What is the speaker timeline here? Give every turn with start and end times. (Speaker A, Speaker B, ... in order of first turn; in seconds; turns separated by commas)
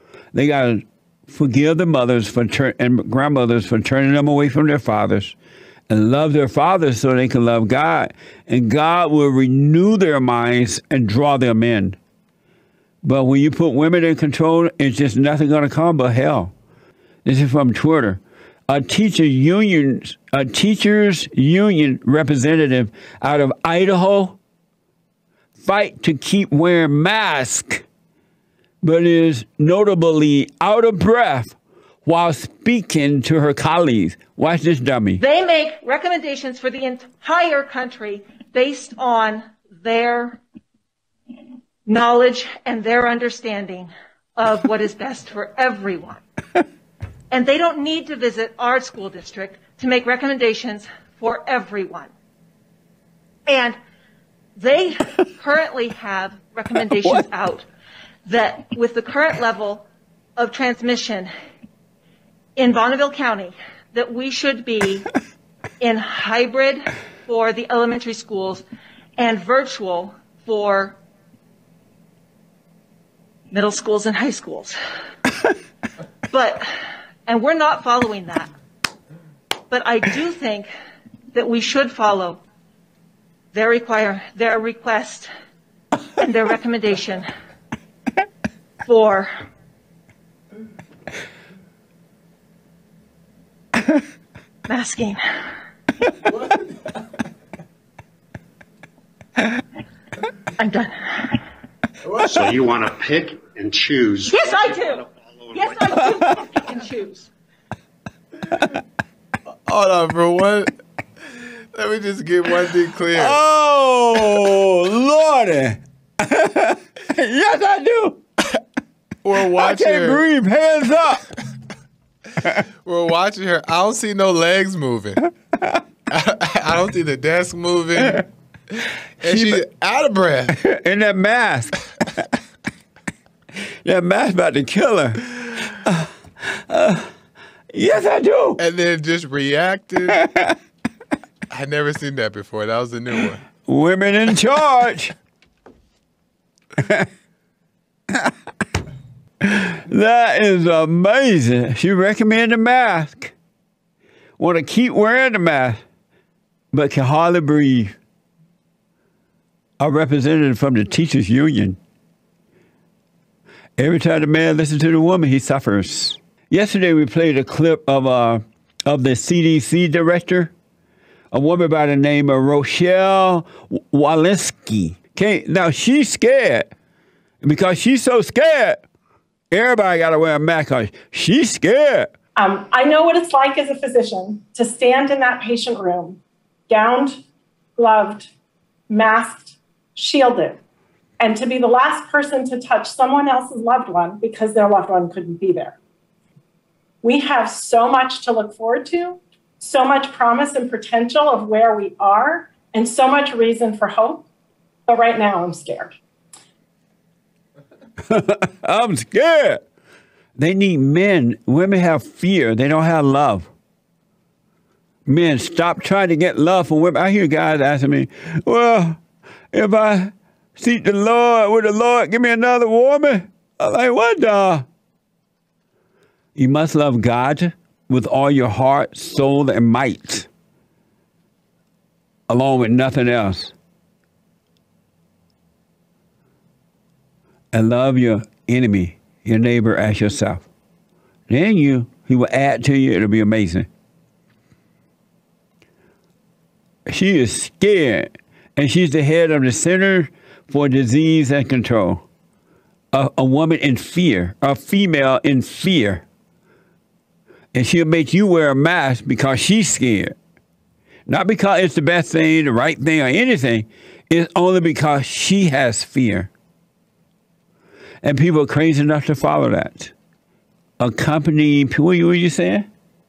Speaker A: 0.3-5.3, Speaker A: 5.9-12.0, Speaker A: 13.0-16.5, Speaker A: 17.2-24.4, Speaker A: 25.6-27.8, Speaker A: 28.8-35.2, Speaker B: 35.2-40.4, Speaker B: 41.9-46.2, Speaker B: 47.3-52.1, Speaker B: 53.5-53.8, Speaker B: 54.6-57.7, Speaker B: 58.2-59.9, Speaker B: 60.4-61.3, Speaker B: 62.6-65.1, Speaker B: 65.8-68.6, Speaker B: 69.2-71.0, Speaker B: 73.5-74.8, Speaker B: 76.3-76.7, Speaker B: 77.3-78.5, Speaker B: 79.7-80.7, Speaker B: 81.3-82.4, Speaker B: 83.5-85.3, Speaker B: 86.2-87.3, Speaker B: 88.9-89.3, Speaker B: 94.7-95.2, Speaker B: 100.6-101.4, Speaker C: 102.3-105.5, Speaker B: 104.3-107.3, Speaker D: 109.7-110.7, Speaker D: 111.7-113.3, Speaker A: 113.1-118.2, Speaker D: 119.2-120.2, Speaker A: 119.4-121.2, Speaker D: 122.8-125.2, Speaker D: 126.1-128.2, Speaker A: 129.2-129.6, Speaker D: 129.2-130.6, Speaker A: 130.5-131.8, Speaker A: 133.8-137.1, Speaker A: 137.7-138.6, Speaker D: 138.6-140.2, Speaker A: 140.1-140.6, Speaker D: 141.5-143.4, Speaker A: 143.7-145.2, Speaker A: 146.8-147.1, Speaker A: 149.4-153.3, Speaker A: 154.4-155.8, Speaker A: 156.7-157.9, Speaker A: 159.8-161.8, Speaker A: 163.8-170.5, Speaker A: 171.3-176.7, Speaker A: 177.4-178.8, Speaker A: 179.5-182.1, Speaker E: 182.4-187.2, Speaker E: 187.8-188.3, Speaker E: 188.9-190.6, Speaker E: 191.2-195.8, Speaker E: 197.0-204.3, Speaker E: 204.9-205.9, Speaker A: 208.1-209.6, Speaker A: 210.4-213.5, Speaker A: 215.1-219.0, Speaker A: 219.5-224.7, Speaker A: 226.4-230.3, Speaker A: 232.3-233.5, Speaker A: 237.5-240.5, Speaker A: 241.3-243.7, Speaker A: 246.9-252.1, Speaker A: 252.9-256.0, Speaker A: 257.5-260.2, Speaker A: 261.1-266.3, Speaker A: 268.0-269.9, Speaker A: 270.8-272.7